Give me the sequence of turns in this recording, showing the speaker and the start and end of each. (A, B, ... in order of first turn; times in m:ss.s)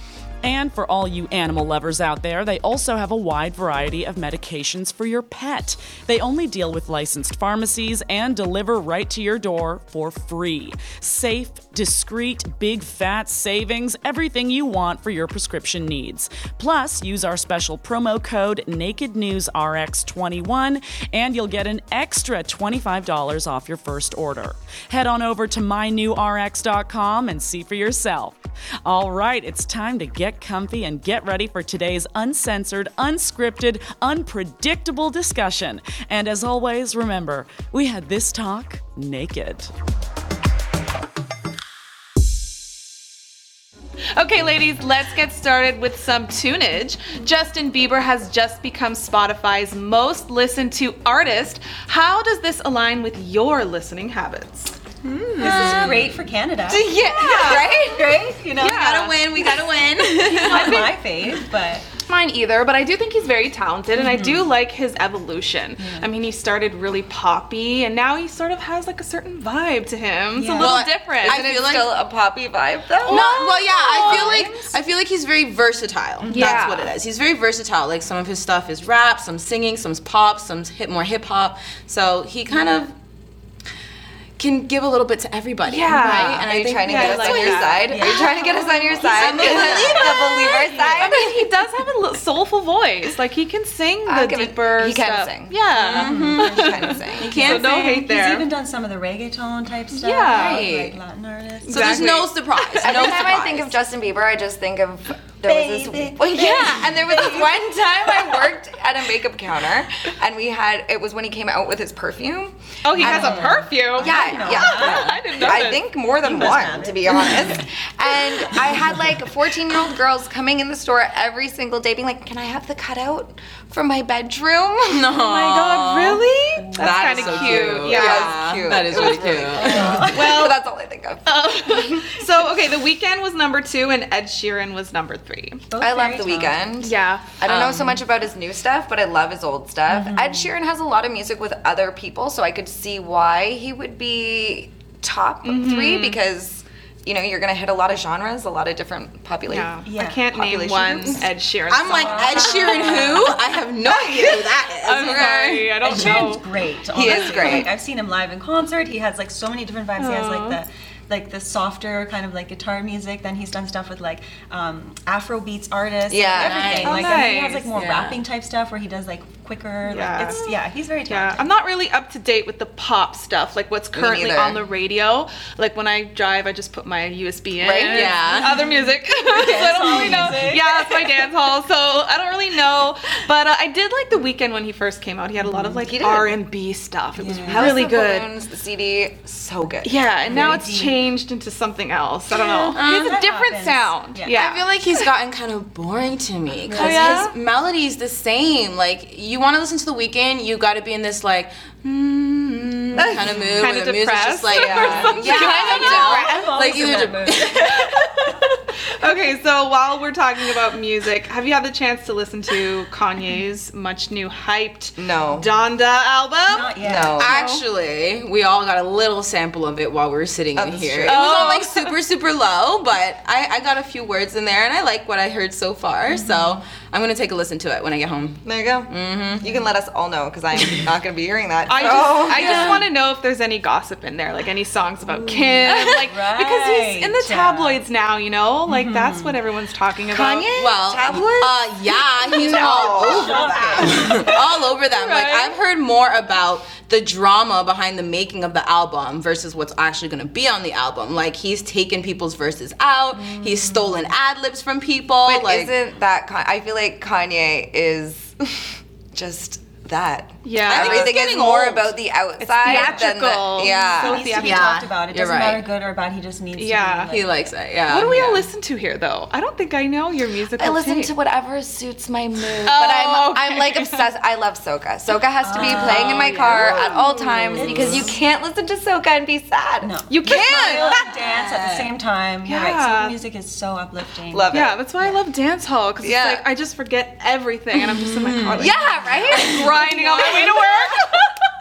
0:00.4-0:39.7 A
0:44.2-0:54.8 B
0:55.4-0:56.2 C
0:55.4-0:56.0 B
0:55.4-0:58.8 D
0:56.7-0:58.3 E
0:57.3-0:57.6 B
0:58.6-0:59.2 B
0:58.6-1:00.9 C
1:00.1-1:01.9 D
1:00.2-1:00.9 B
1:02.0-1:11.5 B
1:04.0-1:04.5 D
1:05.8-1:06.1 D
1:10.3-1:10.8 D
1:10.6-1:11.9 C
1:11.2-1:14.7 E
1:13.0-1:22.9 C
1:13.0-1:13.4 B
1:13.9-1:14.5 B
1:16.2-1:16.7 D
1:16.3-1:16.9 E
1:24.4-1:27.9 C
1:25.6-1:27.8 B
1:25.9-1:31.4 E
1:27.9-1:30.2 D
1:29.0-1:30.7 C
1:29.1-1:38.5 B
1:34.0-1:37.3 E
1:35.7-1:36.5 C
1:35.9-1:42.2 D
1:37.2-1:37.7 C
1:39.9-1:40.7 B
1:40.3-1:41.0 C
1:41.6-1:43.7 C
1:41.7-1:43.0 B
1:42.8-2:05.1 E
1:45.4-1:47.7 D
1:46.4-1:46.7 B
1:52.8-1:55.8 B
1:53.0-1:55.1 D
1:54.6-1:55.0 C
1:56.2-1:57.7 D
2:04.8-2:10.3 C
2:05.2-2:08.4 B
2:06.6-2:07.6 D
2:07.2-2:12.2 E
2:09.2-2:10.4 D
2:09.8-2:10.6 B
2:11.2-2:15.6 B
2:15.7-2:16.6 D
2:15.8-2:29.8 E
2:16.8-2:17.3 B
2:17.4-2:18.0 C
2:19.9-2:20.5 D
2:25.4-2:26.2 B
2:29.5-2:33.2 B
2:29.8-2:30.2 D
2:30.3-2:31.2 E
2:31.7-2:36.2 C
2:31.9-2:33.3 D
2:32.8-2:33.2 E
2:34.0-2:34.3 B
2:34.8-2:36.5 B
2:35.8-2:51.5 D
2:36.9-2:37.7 E
2:37.1-2:37.6 B
2:40.0-2:40.6 B
2:46.1-2:46.6 E
2:46.4-2:47.2 C
2:46.8-2:47.7 B
2:47.7-2:48.2 C
2:49.8-3:08.3 B
2:53.9-2:54.6 E
2:57.6-2:58.1 E
2:57.8-3:01.0 D
2:57.9-2:58.6 C
3:05.4-3:05.8 D
3:05.8-3:06.4 E
3:07.2-3:07.8 D
3:07.5-3:10.7 E
3:09.8-3:14.7 B
3:10.2-3:11.0 D
3:12.3-3:14.4 D
3:12.7-3:13.2 C
3:14.3-3:27.8 C
3:16.7-3:17.2 D
3:16.7-3:17.3 B
3:23.0-3:23.5 E
3:23.0-3:23.4 D
3:23.6-3:26.4 B
3:24.5-3:26.3 E
3:24.6-3:28.4 D
3:29.0-3:37.6 B
3:35.0-3:35.5 E
3:36.5-3:37.3 D
3:36.8-3:37.3 E
3:37.2-3:49.5 C
3:40.6-3:41.6 E
3:41.0-3:41.9 B
3:46.1-3:46.6 D
3:48.4-3:52.8 E
3:49.4-3:49.7 D
3:51.7-4:00.5 B
3:51.8-3:52.9 C
3:55.0-3:57.8 D
3:55.6-3:56.1 C
3:58.7-3:59.4 D
4:00.1-4:01.6 E
4:00.5-4:15.7 C
4:02.2-4:04.1 E
4:02.5-4:04.3 D
4:04.8-4:05.6 B
4:15.2-4:24.2 E
4:20.4-4:21.1 B
4:20.6-4:21.9 C
4:22.4-4:24.7 B
4:22.6-4:23.1 D
4:23.7-4:27.3 D
4:24.1-4:25.6 C
4:26.6-4:27.1 B
4:27.1-4:28.5 C
4:27.9-4:31.1 B
4:30.6-4:40.9 E
4:32.6-4:34.1 B
4:35.4-4:36.7 D
4:35.6-4:38.0 B
4:35.6-4:37.0 C
4:37.5-4:38.1 C
4:37.5-4:38.2 D
4:39.8-4:45.2 D
4:40.1-4:41.0 B
4:41.5-4:41.9 C
4:42.4-4:43.2 B
4:44.3-4:44.8 E
4:44.5-4:51.0 B
4:46.0-4:46.4 E
4:48.3-4:49.1 D
4:48.5-4:50.5 E